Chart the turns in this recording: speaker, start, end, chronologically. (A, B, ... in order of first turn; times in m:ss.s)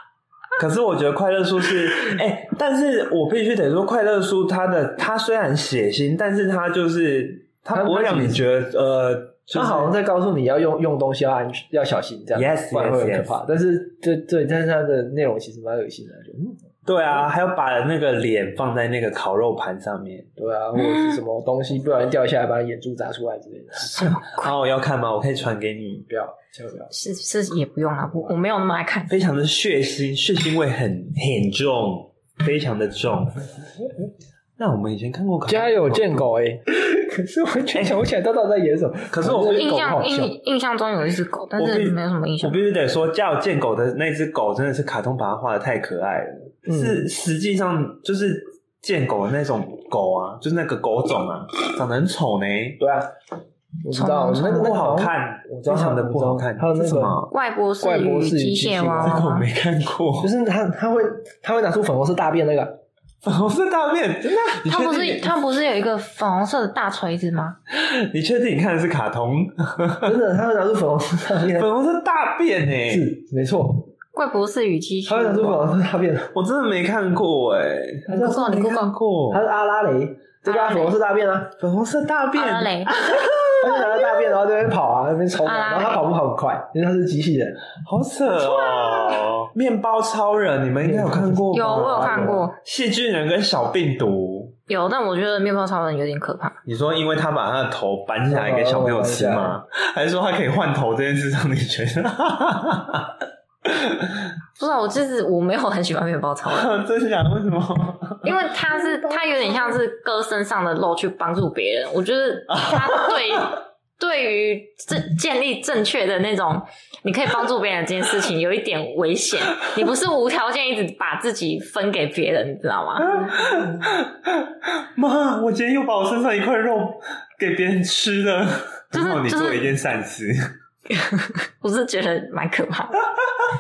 0:00.6-0:09.9 A
0:07.7-0:08.4 B
0:09.5-0:16.7 B
0:12.3-0:13.3 A
0:16.8-0:20.3 A
0:20.4-0:24.0 B
0:20.8-0:21.2 C
0:23.8-0:24.5 C
0:23.9-0:26.1 A
0:26.1-0:26.9 B
0:26.9-0:29.1 C
0:29.1-0:33.5 A
0:34.6-0:36.3 A
0:35.5-0:40.3 B
0:37.7-0:38.0 A
0:39.1-0:39.9 A
0:39.5-0:42.6 C
0:41.6-0:52.8 A
0:46.7-0:47.1 B
0:52.8-0:53.1 B
0:53.8-0:57.3 B
0:53.9-0:54.8 C
0:54.3-0:57.3 A
0:57.3-0:59.5 C
0:57.8-0:59.2 B
0:59.0-1:00.3 A
1:00.2-1:02.8 B
1:03.2-1:05.3 A
1:04.7-1:07.6 C
1:07.7-1:10.2 A
1:10.0-1:11.7 B
1:11.5-1:13.1 A
1:12.9-1:13.9 B
1:14.1-1:15.7 C
1:15.1-1:16.3 B
1:16.3-1:19.4 A
1:18.1-1:18.4 B
1:18.1-1:18.9 C
1:19.3-1:21.6 B
1:20.4-1:21.0 C
1:21.6-1:24.3 A
1:22.4-1:23.0 C
1:23.6-1:27.7 B
1:25.4-1:26.1 C
1:27.8-1:34.6 A
1:28.4-1:29.1 C
1:30.8-1:32.5 B
1:31.5-1:32.6 C
1:34.7-1:36.6 C
1:36.6-1:44.3 A
1:38.3-1:39.6 B
1:44.6-1:46.7 C
1:46.5-1:48.5 A
1:48.2-2:03.5 C
1:52.5-1:53.4 A
2:03.0-2:10.5 A
2:08.9-2:09.7 C
2:10.9-2:13.0 C